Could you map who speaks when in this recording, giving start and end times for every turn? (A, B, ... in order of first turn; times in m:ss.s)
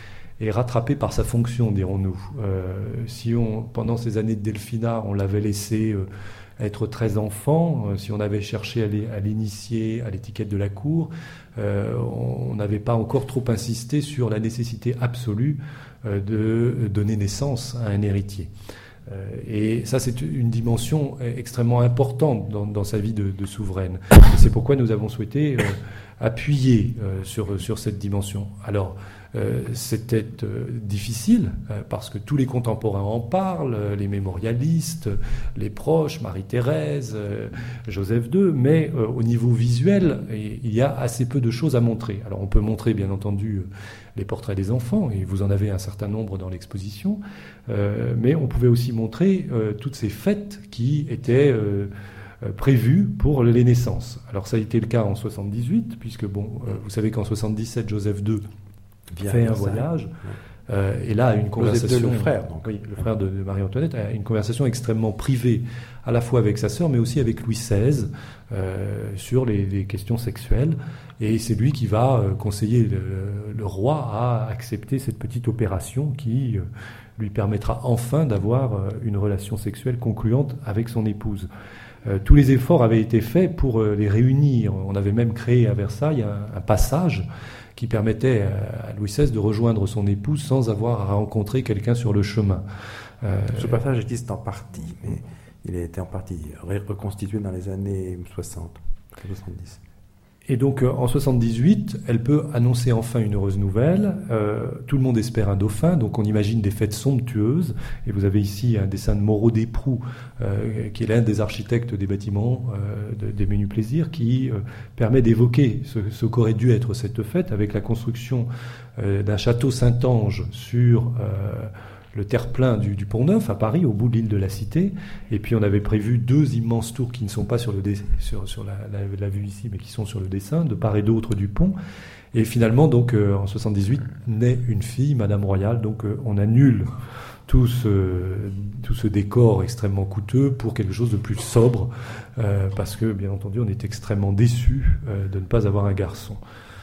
0:00.4-0:06.1 A
0:06.6-0:18.5 A
0:19.1-0:51.9 A
0:52.4-0:58.4 A
0:59.1-1:00.3 B
0:59.2-1:00.1 A
1:00.7-1:16.6 A
1:01.6-1:02.7 B
1:17.2-1:21.5 A
1:22.0-1:32.6 A
1:33.2-1:33.8 A
1:33.5-1:39.8 B
1:40.5-2:11.7 A
2:12.3-2:16.9 A
2:17.5-2:26.4 A